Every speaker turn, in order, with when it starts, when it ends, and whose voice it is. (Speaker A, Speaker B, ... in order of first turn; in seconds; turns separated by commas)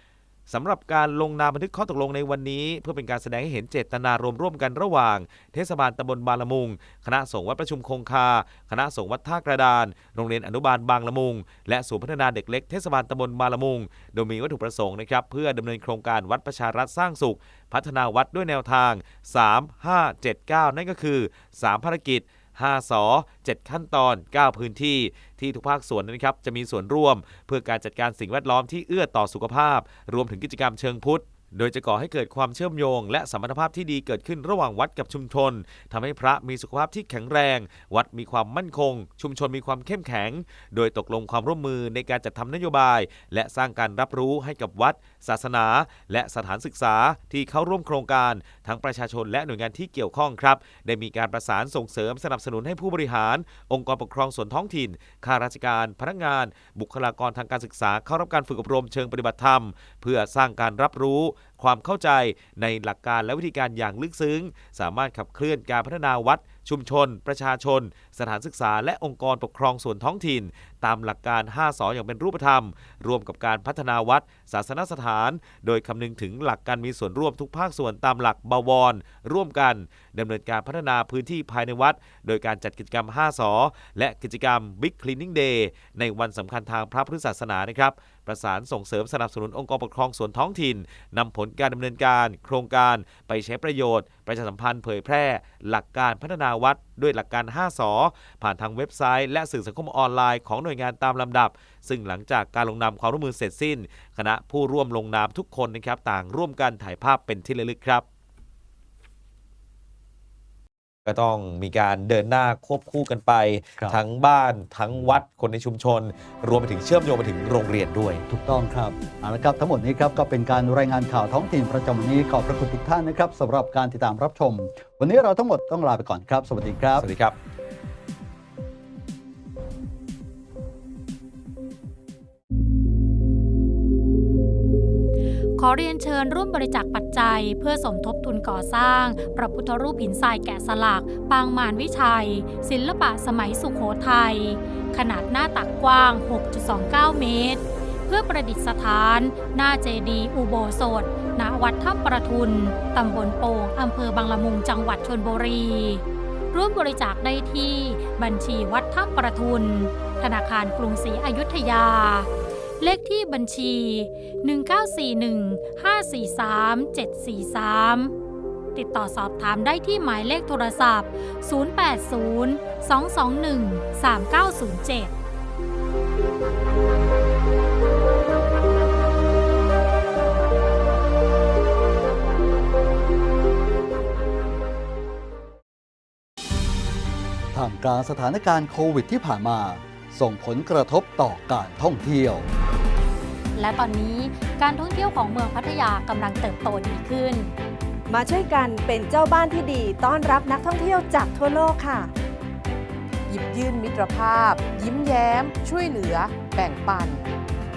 Speaker A: 0.5-108.0, Speaker A: 111.0-118.2, Speaker B: 118.3-127.1, Speaker A: 127.0-127.4, Speaker C: 135.6-162.3, Speaker C: 162.8-168.1, Speaker C: 168.8-175.1, Speaker B: 187.5-192.5, Speaker C: 193.6-197.5, Speaker D: 198.1-202.1, Speaker E: 203.3-207.3